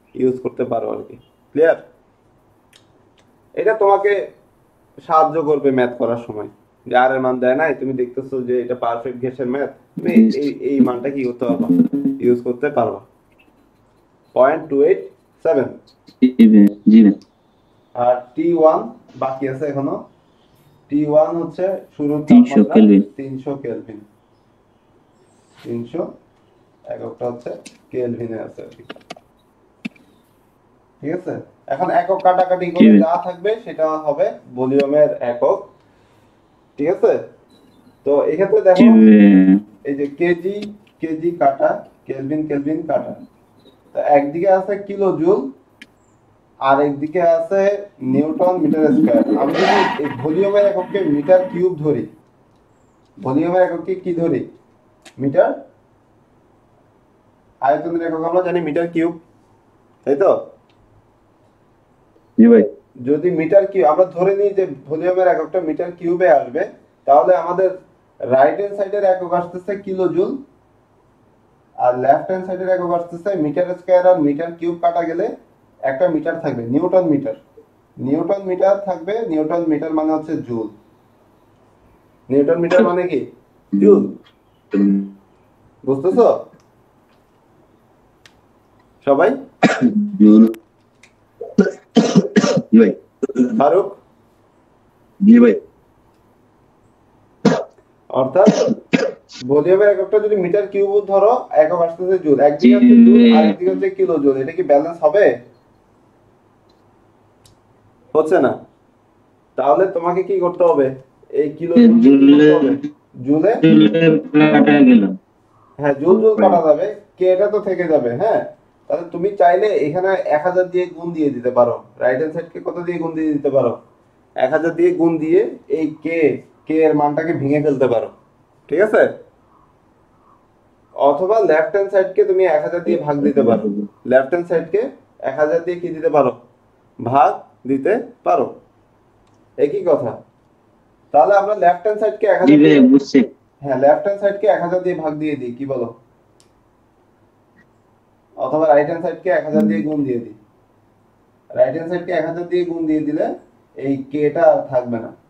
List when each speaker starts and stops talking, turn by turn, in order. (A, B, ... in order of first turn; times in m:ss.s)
0:00.2-0:01.8 A
0:03.6-0:04.3 A
0:05.1-0:13.0 A
0:10.1-0:10.4 B
0:14.3-0:15.8 A
0:16.2-0:17.2 B
0:18.0-0:20.0 A
0:20.9-0:24.0 A
0:22.3-0:23.1 B
0:25.6-0:26.1 A
0:26.9-0:28.9 A
0:31.0-0:35.6 A
0:32.8-0:33.0 B
0:36.8-0:37.2 A
0:38.0-0:39.0 A
0:38.8-0:39.6 B
0:39.8-0:43.2 A
0:43.9-0:45.5 A
0:46.6-0:52.1 A
0:53.2-0:54.4 A
0:55.2-0:55.5 A
0:57.6-0:59.2 A
1:00.1-1:00.4 A
1:02.4-1:02.7 C
1:03.0-1:07.7 A
1:08.3-1:10.4 A
1:11.8-1:15.3 A
1:15.9-1:17.4 A
1:18.0-1:20.7 A
1:22.3-1:23.2 A
1:23.8-1:24.1 A
1:24.7-1:25.1 C
1:25.8-1:26.4 A
1:29.0-1:29.4 A
1:29.7-1:30.5 C
1:31.6-1:33.5 C
1:33.6-1:34.0 A
1:35.2-1:35.6 C
1:38.1-1:38.6 A
1:39.4-1:45.3 A
1:42.6-1:43.7 B
1:48.1-1:48.6 A
1:49.6-1:53.6 A
1:51.8-1:52.8 B
1:53.6-1:55.2 B
1:55.8-2:03.8 A
2:04.4-2:08.1 A
2:08.7-2:09.1 A
2:11.0-2:16.4 A
2:13.2-2:13.6 B
2:17.0-2:18.5 A
2:19.6-2:20.2 A
2:21.1-2:22.8 A
2:22.4-2:23.3 B
2:23.6-2:25.9 A
2:28.4-2:30.4 A
2:31.6-2:35.1 A